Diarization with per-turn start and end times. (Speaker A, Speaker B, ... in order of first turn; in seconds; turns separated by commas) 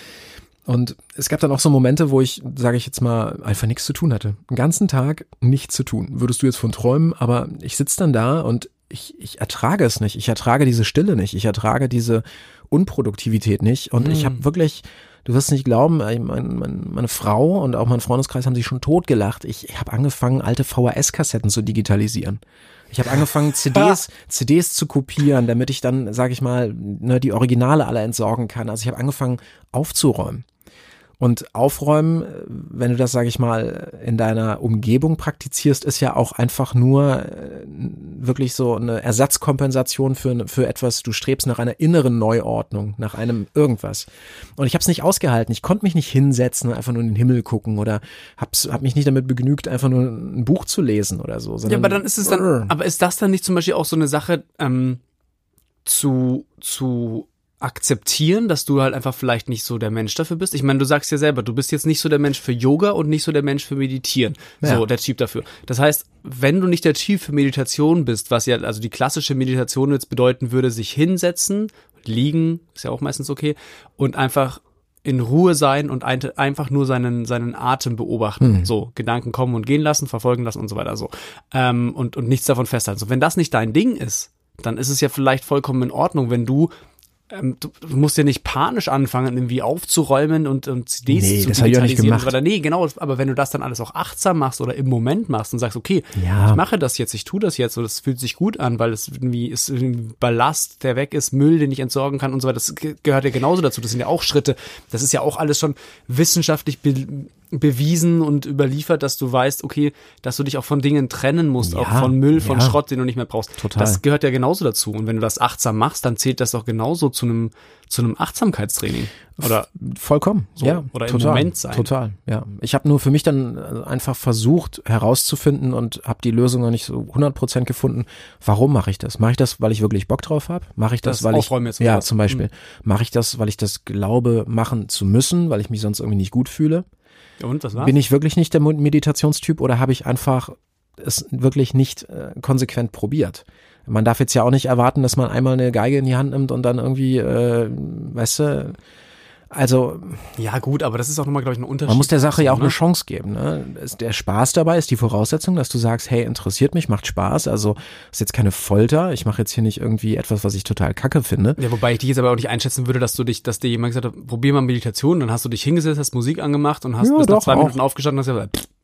Speaker A: 0.7-30.4, Speaker B: 14.0-14.4, Speaker A: 31.2-52.7, Speaker B: 51.6-55.0, Speaker B: 55.8-86.7, Speaker A: 78.4-78.7, Speaker B: 87.3-119.7, Speaker A: 91.1-92.3, Speaker A: 96.2-96.6, Speaker A: 111.6-112.8, Speaker A: 113.6-114.0, Speaker A: 119.4-136.8, Speaker B: 120.6-121.9, Speaker B: 131.0-132.4, Speaker B: 137.4-137.9, Speaker A: 137.8-148.8, Speaker A: 149.5-150.3, Speaker B: 150.4-152.8, Speaker A: 151.9-161.6, Speaker B: 161.6-168.7, Speaker A: 167.0-167.8